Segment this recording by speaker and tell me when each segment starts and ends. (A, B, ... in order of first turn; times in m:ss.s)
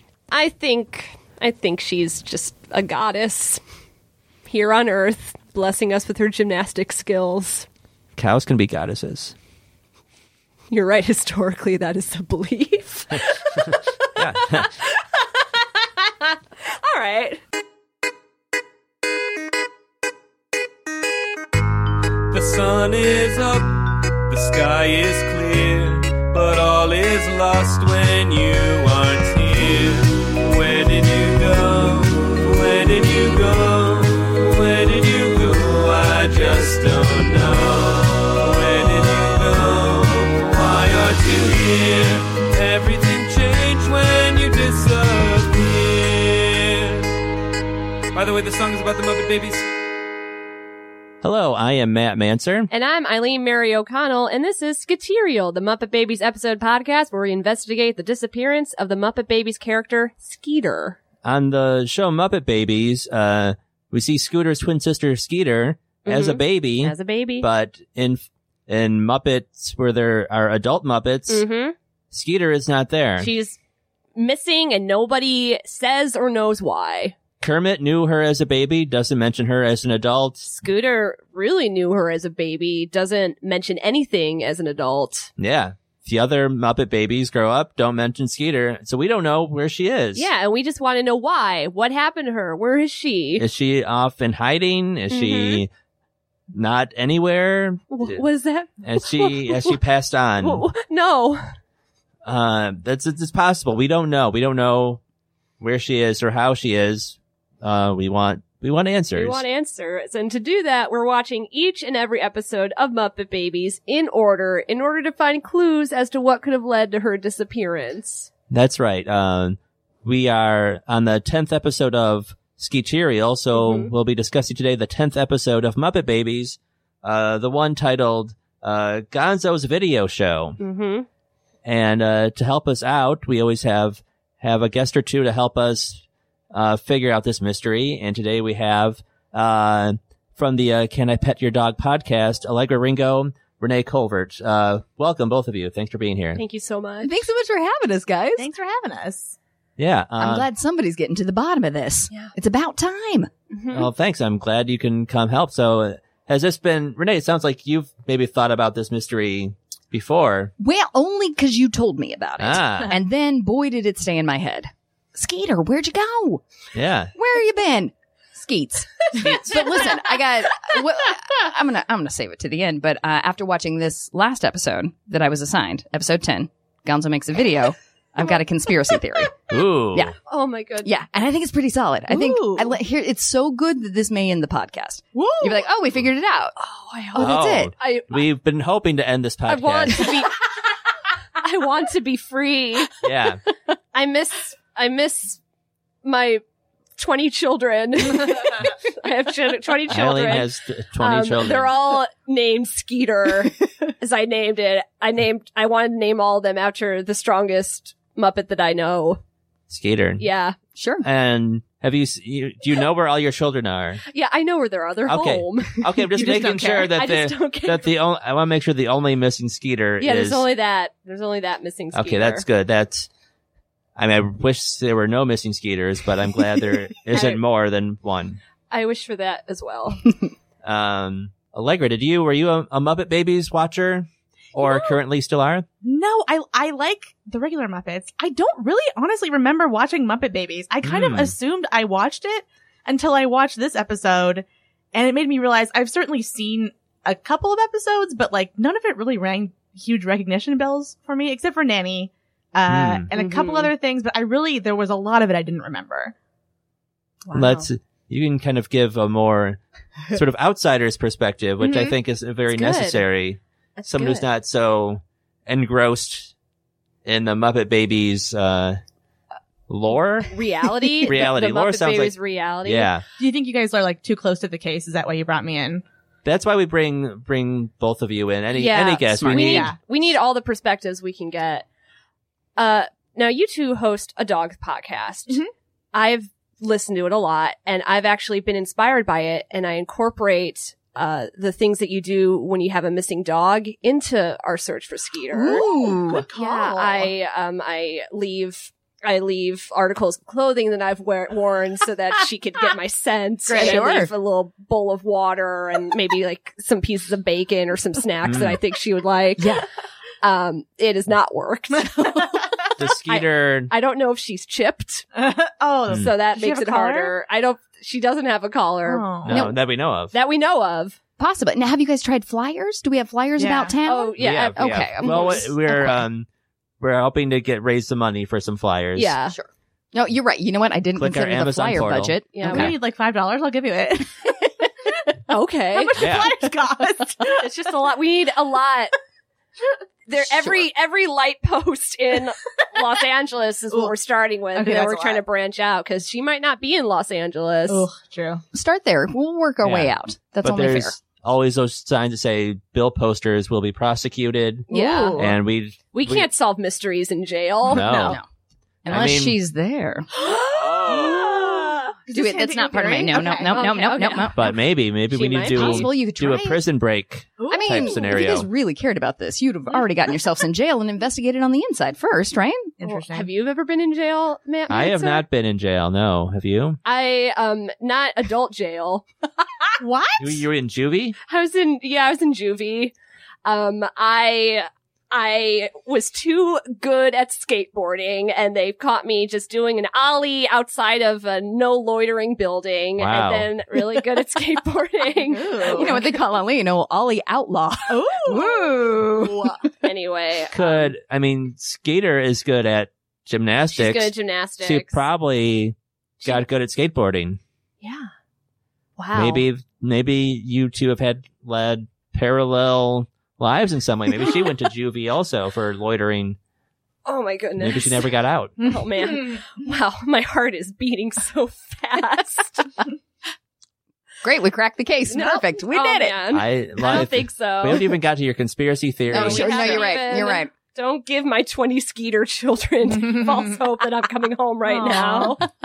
0:00.3-0:03.6 A
0:04.4-0:07.6 A
0:08.2-0:09.3 B
0:10.7-0:15.2 A
0:13.6-0:14.7 B
0:16.2-0:17.4 A
0:22.3-0:47.1 C
0:48.1-0:49.7 C
0:51.2-0:52.7 B
0:52.7-1:01.0 A
1:01.2-1:11.4 B
1:06.0-1:07.5 A
1:11.3-1:11.7 A
1:12.1-1:13.3 B
1:13.2-1:13.6 A
1:14.2-1:17.1 A
1:17.4-1:20.5 B
1:20.4-1:25.3 A
1:25.4-1:30.3 B
1:30.1-1:33.4 A
1:33.4-1:35.7 B
1:35.1-1:35.6 A
1:36.5-1:38.2 B
1:37.9-1:39.8 A
1:38.8-1:40.6 B
1:40.4-1:41.4 A
1:42.2-1:45.0 B
1:45.6-1:49.4 B
1:49.2-1:58.3 A
1:58.5-2:10.6 B
2:03.5-2:03.9 A
2:10.6-2:11.0 A
2:11.6-2:26.4 B
2:26.4-2:27.1 A
2:27.0-2:28.5 D
2:28.4-2:29.3 E
2:29.8-2:30.5 B
2:30.2-2:33.3 D
2:33.5-2:33.9 A
2:33.7-2:40.5 B
2:40.6-2:46.4 D
2:42.4-2:42.9 B
2:46.7-2:47.1 B
2:47.1-3:00.2 D
2:49.1-2:49.7 B
2:59.5-3:00.1 B
3:00.3-3:00.9 A
3:00.8-3:06.6 D
3:02.1-3:02.8 E
3:05.1-3:05.6 E
3:06.6-3:08.2 A
3:07.1-3:07.7 D
3:07.2-3:10.1 B
3:09.5-3:10.5 A
3:11.4-3:13.0 A
3:13.0-3:13.4 B
3:13.9-3:15.4 A
3:16.0-3:16.4 A
3:17.0-3:29.2 A
3:19.9-3:21.7 B
3:29.7-3:30.2 B
3:30.2-3:30.6 A
3:30.8-3:31.0 D
3:31.0-3:34.0 B
3:34.1-3:35.8 A
3:35.1-3:40.4 B
3:36.2-3:36.9 E
3:36.8-3:37.9 A
3:40.0-3:42.4 A
3:41.9-3:43.1 B
3:44.0-3:48.4 B
3:47.1-3:47.4 A
3:48.7-3:50.1 A
3:50.6-3:55.6 B
3:54.6-3:55.0 A
3:55.8-4:16.1 E
4:00.8-4:01.3 B
4:12.7-4:13.0 B
4:13.1-4:13.7 A
4:17.2-4:17.7 A
4:17.3-4:26.3 B
4:21.6-4:21.9 A
4:22.5-4:23.0 A
4:23.8-4:24.3 A
4:27.0-4:28.8 B
4:29.7-4:30.4 B
4:30.3-4:32.9 A
4:31.0-4:33.0 B
4:33.2-4:35.8 E
4:36.2-4:39.7 B
4:38.5-4:41.6 A
4:39.3-4:39.8 E
4:42.6-4:45.4 A
4:45.9-4:55.6 A
4:55.3-4:56.2 D
4:55.7-4:57.1 E
4:56.3-5:09.6 A
5:03.5-5:04.1 D
5:03.5-5:04.0 E
5:08.2-5:08.6 B
5:09.4-5:09.6 D
5:10.2-5:15.0 A
5:12.8-5:13.7 B
5:15.1-5:17.1 E
5:15.9-5:19.6 A
5:18.8-5:19.4 E
5:19.2-5:20.1 B
5:20.1-5:21.0 A
5:21.2-5:26.0 D
5:23.4-5:23.8 E
5:23.8-5:25.5 A
5:24.2-5:26.3 B
5:26.8-5:29.1 B
5:29.0-5:29.3 A
5:29.3-5:32.7 D
5:31.0-5:32.2 B
5:32.3-5:32.8 A
5:32.4-5:34.3 E
5:35.3-5:36.0 A
5:35.8-5:37.5 E
5:36.0-5:36.3 B
5:37.3-5:38.9 A
5:40.1-5:47.9 A
5:44.5-5:45.2 E
5:47.7-5:48.4 E
5:48.5-5:51.0 D
5:49.6-5:56.3 B
5:54.7-5:55.2 A
5:54.7-5:55.3 E
5:54.7-5:55.2 D
5:55.9-5:58.2 A
5:57.7-5:58.2 B
5:58.8-6:00.1 D
5:58.9-5:59.4 B
6:00.1-6:03.9 E
6:00.5-6:01.3 B
6:02.1-6:04.5 D
6:03.5-6:05.9 A
6:04.4-6:08.5 B
6:05.5-6:06.6 D
6:07.4-6:08.0 E
6:07.5-6:12.7 D
6:12.8-6:13.3 E
6:12.8-6:15.2 A
6:14.7-6:16.8 B
6:16.8-6:19.1 A
6:19.8-6:20.4 E
6:20.2-6:21.2 B
6:21.2-6:22.9 A
6:23.4-6:36.1 A
6:33.0-6:33.5 B
6:35.2-6:36.1 E
6:35.6-6:39.6 D
6:37.9-6:39.7 E
6:39.8-6:40.9 A
6:40.5-6:47.4 B
6:43.7-6:45.0 A
6:47.8-6:48.1 A
6:49.0-6:49.4 A
6:49.1-6:56.4 B
6:57.0-7:02.7 A
6:57.6-6:58.6 B
6:58.7-6:59.4 E
7:04.2-7:06.2 D
7:05.1-7:07.9 A
7:06.3-7:09.9 B
7:09.1-7:10.5 D
7:09.1-7:15.4 A
7:14.7-7:15.3 E
7:14.9-7:15.3 D